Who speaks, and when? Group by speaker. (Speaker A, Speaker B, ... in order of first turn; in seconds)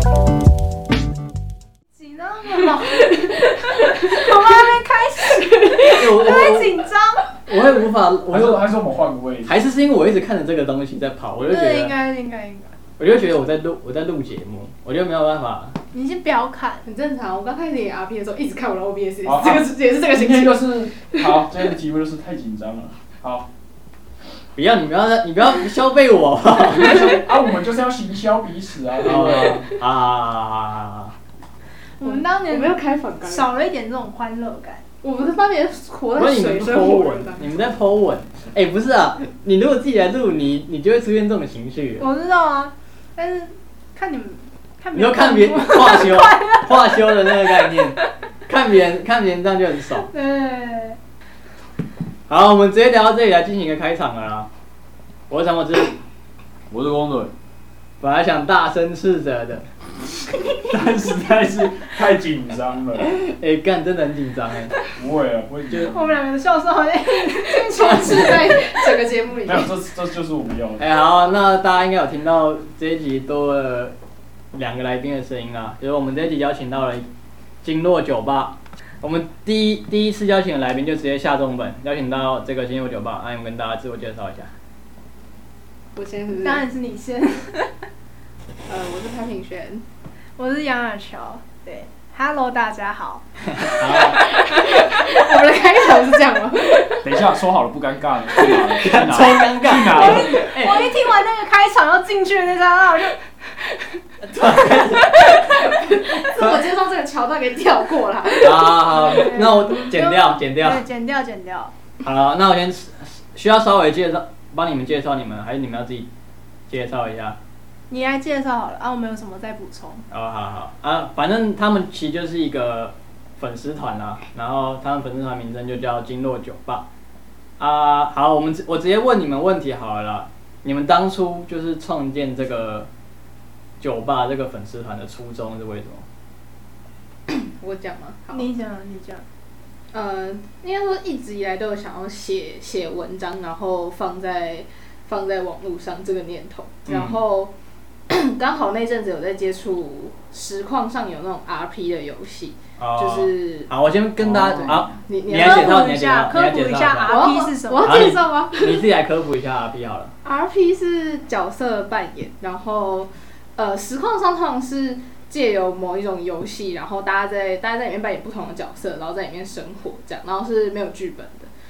Speaker A: 2.0-7.3, 11.4-12.7, 15.9-16.9, 32.0-34.8, 42.0-48.0, 50.0-51.0, 65.8-68.2, 86.3-87.7, 90.4-93.2, 99.9-103.2, 108.9-111.7, 117.9-120.0, 138.3-139.2, 155.3-158.2
Speaker B: 5.9-6.8, 7.5-8.6, 9.4-12.0, 13.0-15.8, 24.6-27.2, 29.0-31.1, 36.2-42.1, 44.9-50.1, 52.3-54.5, 55.3-56.0, 58.0-59.7, 63.2-64.8, 67.9-68.4, 70.8-73.9, 74.5-77.1, 77.6-84.5, 93.6-94.2, 98.8-100.9, 104.2-105.4, 106.2-106.6, 108.4-110.8, 112.0-116.1, 116.7-117.4, 120.1-126.9, 127.6-132.9, 133.8-136.0, 146.9-147.2, 152.8-157.3, 157.8-160.1
Speaker C: 8.3-9.6, 19.2-23.5, 26.8-29.7, 56.7-57.3, 60.7-63.2, 65.0-66.2, 69.5-70.9, 97.0-100.4, 154.2-154.9
Speaker D: 16.9-21.2, 32.0-33.5, 35.0-37.5, 67.5-69.7, 86.0-86.7, 88.7-89.8, 94.1-97.0, 105.8-109.1, 137.3-138.5, 139.9-147.5, 148.1-153.7, 154.5-155.8, 157.1-158.8, 160.2-171.5